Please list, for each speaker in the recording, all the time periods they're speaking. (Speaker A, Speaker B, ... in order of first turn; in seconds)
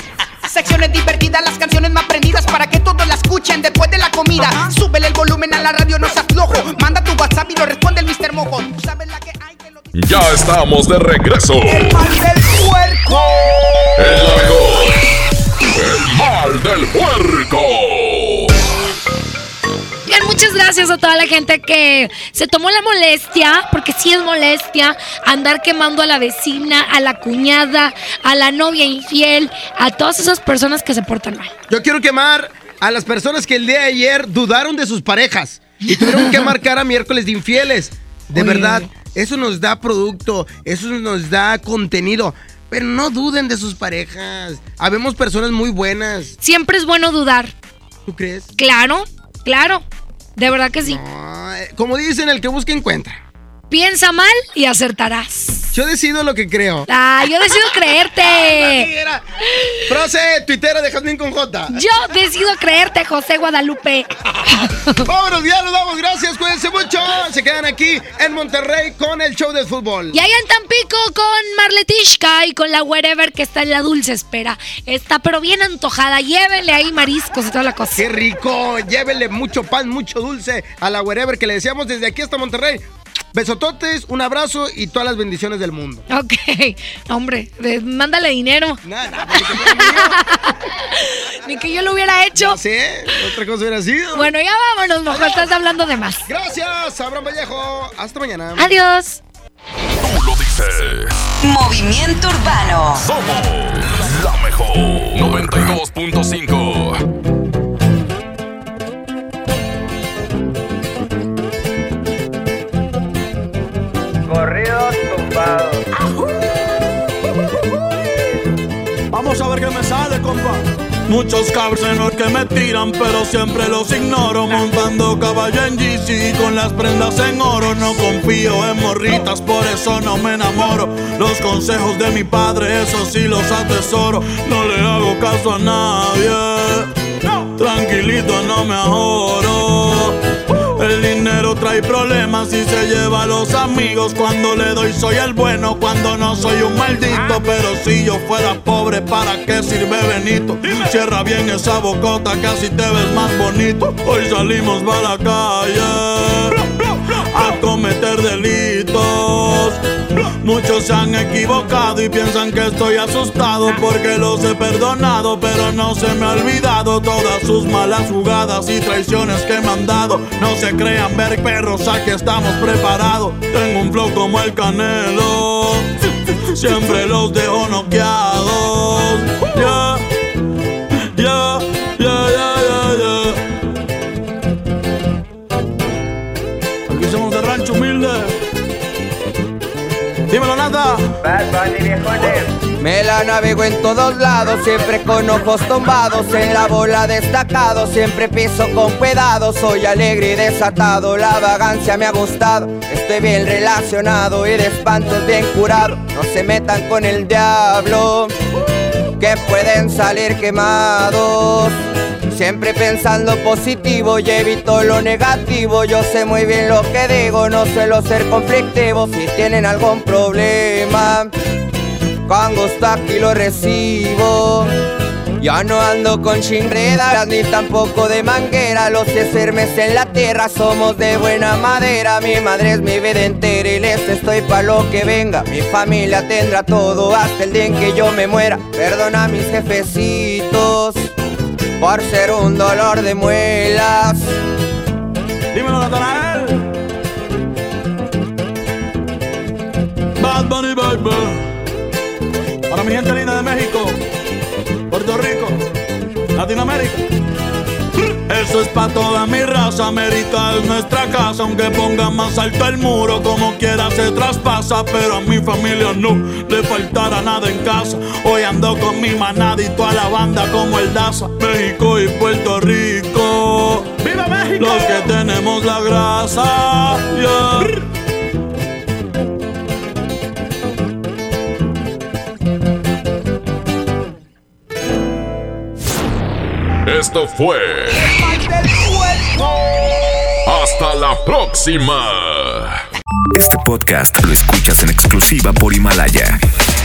Speaker A: 0.5-9.9, 11.7-13.2, 288.3-289.3
Speaker B: 9.9-12.0, 14.0-15.0, 15.7-18.7, 100.0-101.2, 103.0-107.0, 286.8-288.1, 290.4-292.8
Speaker C: 20.1-31.5, 36.0-36.4, 38.3-38.9, 46.4-47.5, 48.6-49.8, 50.4-51.0, 53.7-55.7, 56.9-58.9, 59.5-59.8, 61.7-65.0, 70.1-78.1, 86.1-88.8, 89.3-92.6, 94.1-96.2, 98.5-99.2
Speaker D: 31.7-46.3, 48.1-48.5, 50.8-53.2, 55.7-56.9, 58.2-59.2, 59.9-61.8, 65.0-70.2, 78.0-86.0, 88.8-90.2, 92.4-94.3, 95.1-95.5, 96.2-98.7
Speaker E: 114.3-115.8, 191.3-192.4
Speaker F: 119.1-140.2, 140.7-156.6, 157.1-159.8, 160.4-175.9, 176.5-180.0, 181.1-183.4, 186.9-188.3, 190.3-191.1, 245.5-246.6, 250.2-251.4, 252.7-254.0, 254.9-255.6, 256.4-257.0, 258.3-277.7
Speaker G: 192.8-208.3, 209.2-211.7, 212.3-221.3, 222.3-224.7, 225.4-241.1, 241.8-244.3
Speaker H: 293.4-296.4